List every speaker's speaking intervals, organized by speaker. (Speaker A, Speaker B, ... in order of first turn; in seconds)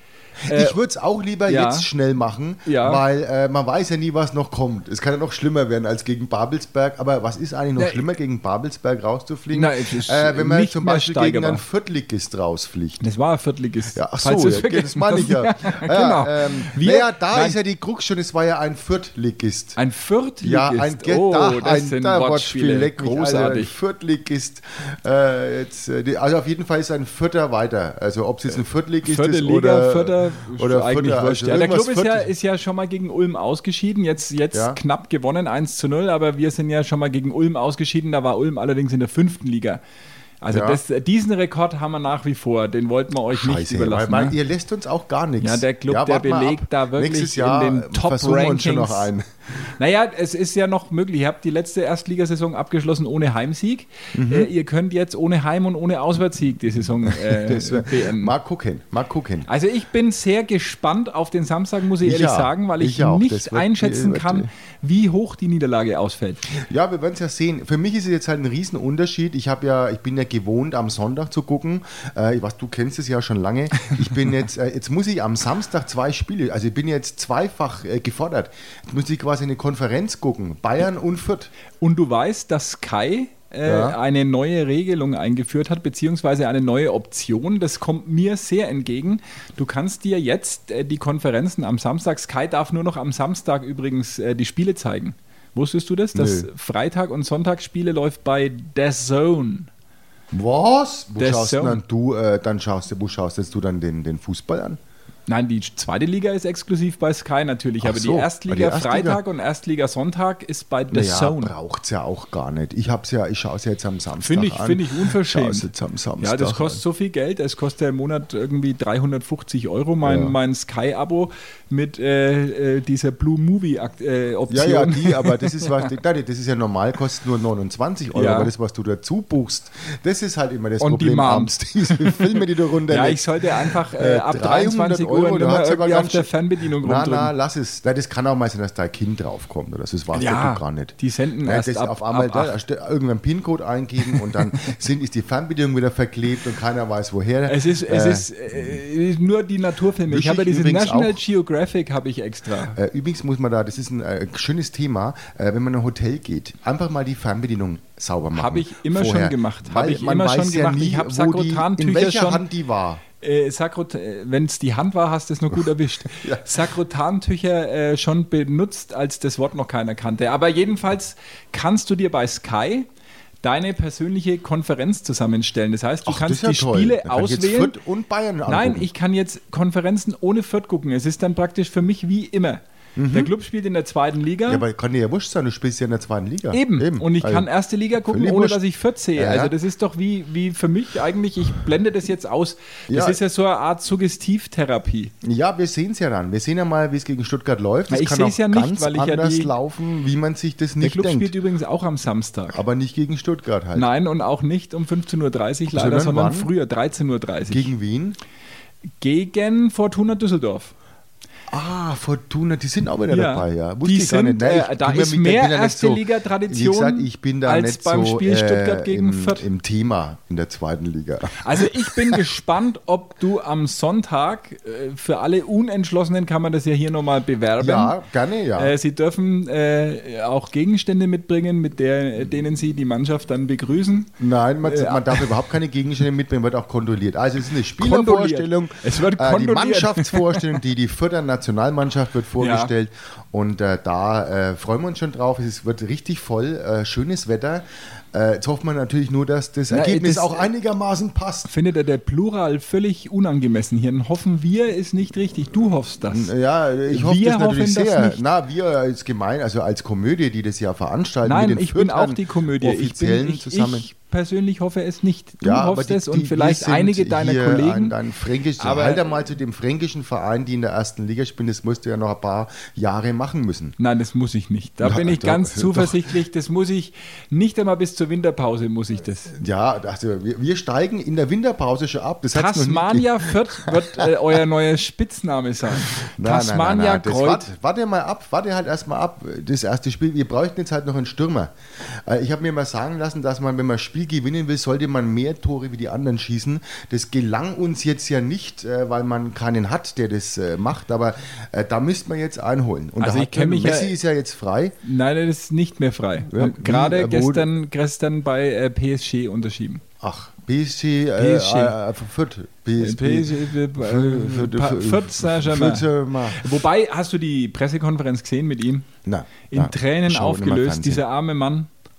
Speaker A: 0.4-0.8, 1.4-1.9, 2.6-3.0, 7.8-8.0, 9.5-11.6, 13.0-17.5, 19.8-23.7, 29.0-39.8, 40.4-44.4, 45.4-49.1, 49.7-58.3, 59.5-66.4, 81.8-99.7, 101.2-101.8, 105.3-111.5, 114.2-115.7, 116.2-125.8, 128.1-128.5, 130.8-137.3, 140.1-142.5, 147.5-152.8, 158.3-162.4, 163.2-172.9, 173.4-177.7, 178.5-184.6, 186.5-195.1, 197.9-199.5, 200.8-202.6, 203.7-207.7, 209.0-210.7, 213.1-219.4, 221.4-227.9, 228.6-235.3, 237.8-240.5, 242.4-242.7, 249.7-250.5, 251.5-256.3, 256.9-258.2, 261.2-267.9, 268.6-269.1, 273.8-279.3, 282.3-287.5, 303.0-303.9, 304.8-309.8, 311.1-311.8, 312.8-318.9, 319.5-321.7
Speaker B: 0.5-13.0, 13.9-19.8, 20.4-32.3, 34.5-34.8, 40.5-40.8, 43.3-49.3, 54.1-54.5, 57.1-59.5, 62.0-64.5, 66.5-81.5, 83.6-84.0, 96.1-96.5, 100.3-104.8, 107.8-109.2, 110.9-116.8, 120.0-120.3, 124.5-136.3, 136.8-148.3, 150.1-151.2, 152.7-163.0, 166.1-166.4, 176.1-178.9, 182.9-183.3, 184.4-187.5, 188.0-188.6, 189.2-189.5, 192.9-193.2, 195.2-201.3, 202.5-203.9, 205.7-206.5, 207.5-208.2, 211.5-222.2, 227.6-228.7, 234.2-251.5, 256.1-263.9, 265.4-273.8, 274.8-276.1, 279.3-284.1, 285.9-304.8, 306.3-307.5, 310.0-316.4, 319.0-321.0